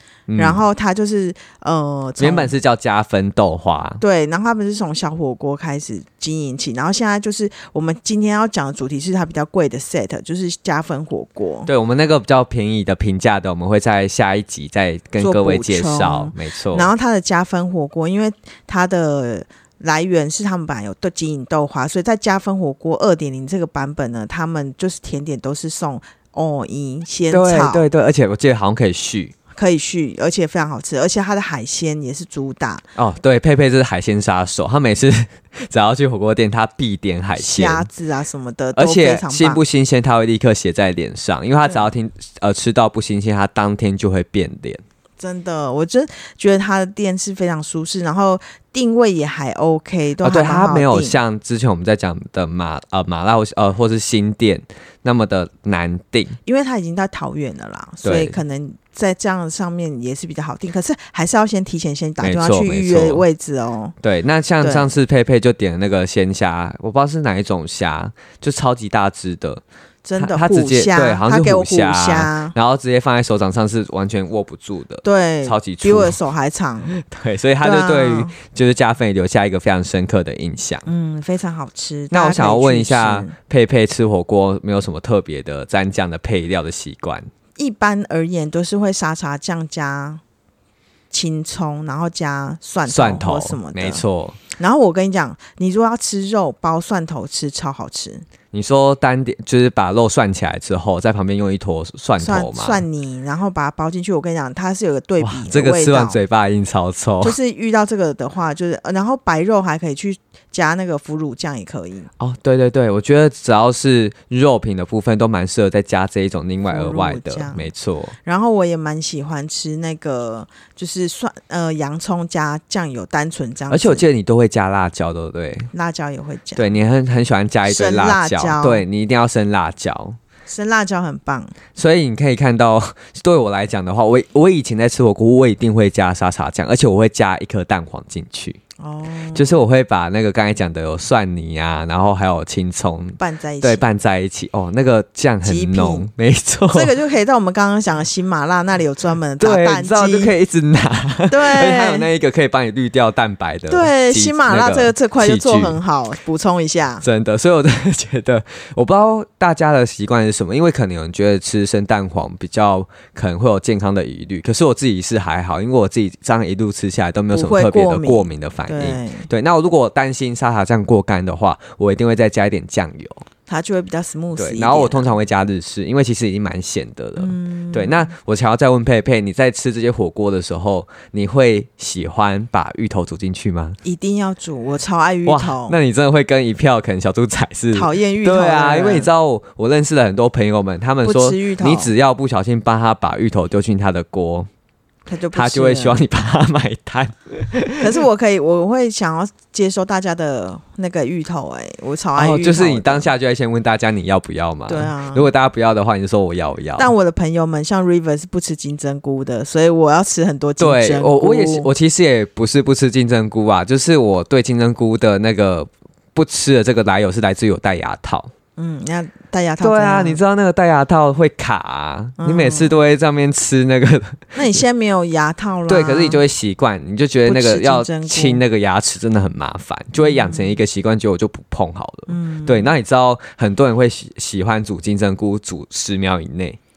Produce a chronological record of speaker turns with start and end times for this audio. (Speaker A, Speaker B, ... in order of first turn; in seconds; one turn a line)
Speaker A: 0.3-0.6
Speaker B: 0.4-2.5
Speaker A: 2.2-4.0
Speaker B: 4.0-11.7
Speaker A: 11.7-16.9
Speaker B: 15.2-27.9
Speaker A: 27.3-29.3
Speaker B: 29.6-32.8
Speaker A: 33.0-37.9
Speaker B: 37.4-39.6
Speaker A: 38.8-44.8
Speaker B: 45.2-51.2
Speaker A: 50.2-56.4
Speaker B: 56.5-64.0
Speaker A: 58.0-58.4
Speaker A: 62.2-63.2
Speaker A: 64.0-69.6
Speaker B: 64.6-64.9
Speaker B: 70.0-72.5
Speaker A: 70.2-76.2
Speaker B: 75.0-76.9
Speaker A: 76.9-80.9
Speaker B: 77.6-78.3
Speaker B: 80.9-83.3
Speaker A: 82.1-87.3
Speaker B: 87.6-90.2
Speaker B: 91.1-94.0
Speaker A: 92.9-94.4
Speaker B: 94.6-98.2
Speaker A: 98.5-102.8
Speaker B: 102.2-106.2
Speaker A: 105.2-107.4
Speaker B: 107.2-112.1
Speaker A: 112.2-118.1
Speaker B: 116.7-117.7
Speaker B: 118.2-124.1
Speaker A: 123.7-125.7
Speaker B: 125.7-126.7
Speaker A: 126.6-130.2
Speaker B: 127.7-128.8
Speaker B: 130.5-131.5
Speaker A: 131.8-138.6
Speaker B: 138.8-139.5
Speaker A: 139.3-146.9
Speaker B: 143.2-143.9
Speaker B: 145.4-146.1
Speaker B: 146.7-150.3
Speaker A: 149.4-155.8
Speaker B: 151.3-152.1
Speaker B: 153.7-157.1
Speaker A: 157.0-173.2
Speaker B: 167.3-169.3
Speaker B: 173.5-175.1
Speaker A: 174.4-183.8
Speaker B: 177.2-178.1
Speaker B: 183.8-185.8
Speaker A: 185.3-194.5
Speaker B: 187.7-189.1
Speaker B: 191.0-191.9
Speaker B: 195.1-196.0
Speaker A: 195.3-197.9
Speaker B: 197.8-203.1
Speaker A: 202.2-206.9
Speaker B: 204.7-205.3
Speaker B: 206.8-211.7
Speaker A: 210.6-218.3
Speaker B: 218.6-220.2
Speaker A: 219.6-224.6
Speaker B: 222.2-222.8
Speaker B: 224.3-226.2
Speaker A: 225.7-236.6
Speaker B: 227.2-228.4
Speaker B: 230.0-230.6
Speaker B: 232.1-232.7